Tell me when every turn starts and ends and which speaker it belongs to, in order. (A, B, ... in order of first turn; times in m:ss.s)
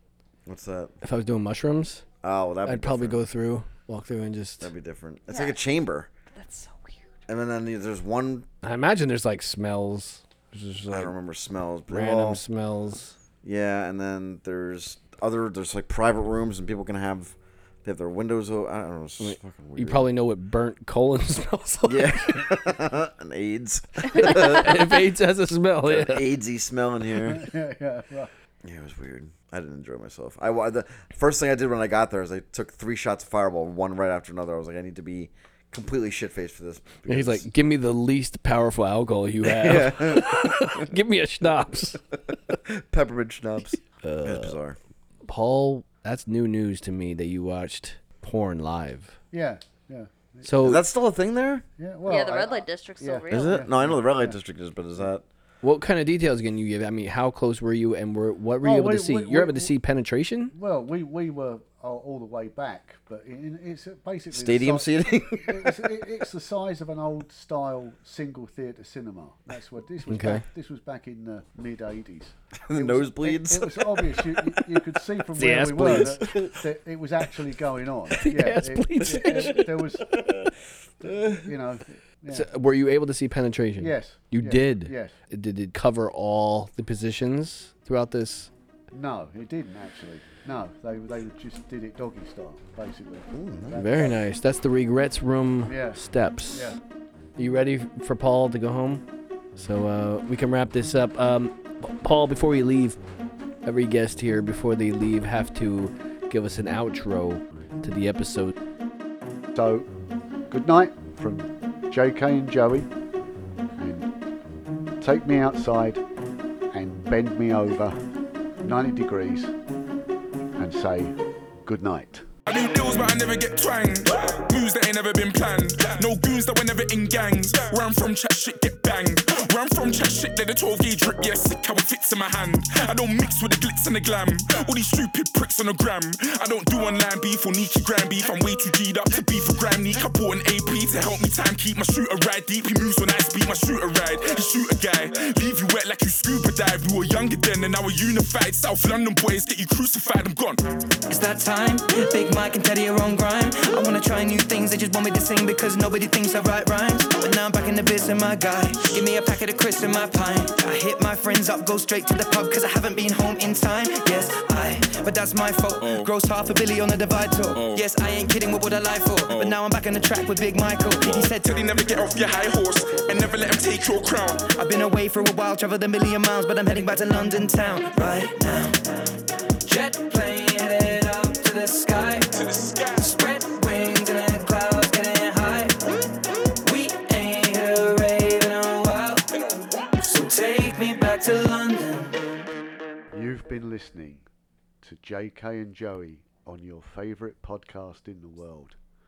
0:00.4-0:00.9 A
0:01.0-0:02.0 B
0:02.2-0:03.3 A
0:02.6-0:04.7 B
0:04.6-0:06.1 A
0:05.3-0:05.6 C
0:06.3-0:07.0 C
0:07.3-0:08.5 A
0:08.6-0:11.1 B
0:10.9-0:12.4 A
0:11.9-0:13.2 B
0:13.4-0:20.1 A
0:19.2-0:22.5 B
0:21.8-0:25.0 A
0:24.2-0:26.3 B
0:25.8-0:27.4 A
0:27.3-0:28.3 D
0:28.6-0:37.5 A
0:37.0-0:42.0 B
0:39.4-0:40.9 A
0:42.3-0:44.8 A
0:44.0-0:44.6 B
0:45.2-0:49.2 B
0:49.3-0:50.5 D
0:50.4-0:50.8 B
0:50.6-0:51.6 A
0:51.8-0:54.4 D
0:52.0-0:53.6 C
0:53.3-0:55.2 A
0:55.6-1:00.5 B
0:58.6-0:59.7 D
1:00.5-1:20.1 D
1:04.3-1:05.9 A
1:10.0-1:10.4 B
1:12.6-1:14.8 A
1:15.3-1:16.5 B
1:16.2-1:16.5 A
1:18.2-1:19.9 B
1:20.1-1:21.5 A
1:21.1-1:22.5 D
1:22.3-1:28.5 B
1:23.8-1:25.1 D
1:28.9-1:34.3 D
1:33.3-1:33.8 A
1:33.8-1:36.8 B
1:35.6-1:36.8 D
1:37.4-1:39.0 B
1:39.6-1:43.0 B
1:43.6-1:48.5 B
1:49.5-1:49.9 D
1:50.5-1:52.9 D
1:53.8-1:54.1 D
1:55.0-1:56.0 D
1:56.7-1:58.0 D
1:58.6-1:59.5 D
2:00.6-2:02.2 D
2:02.4-2:30.6 E
2:31.1-2:51.8 F
2:45.8-2:46.1 E
2:47.5-2:47.8 E
2:49.3-2:49.6 E
2:51.0-2:54.4 E
2:54.4-2:58.9 F
2:59.6-3:02.4 F
3:02.3-3:03.1 E
3:02.9-3:05.8 F
3:06.6-3:09.3 F
3:09.3-3:10.0 E
3:10.0-3:12.2 F
3:13.1-3:14.2 D
3:14.8-3:18.8 D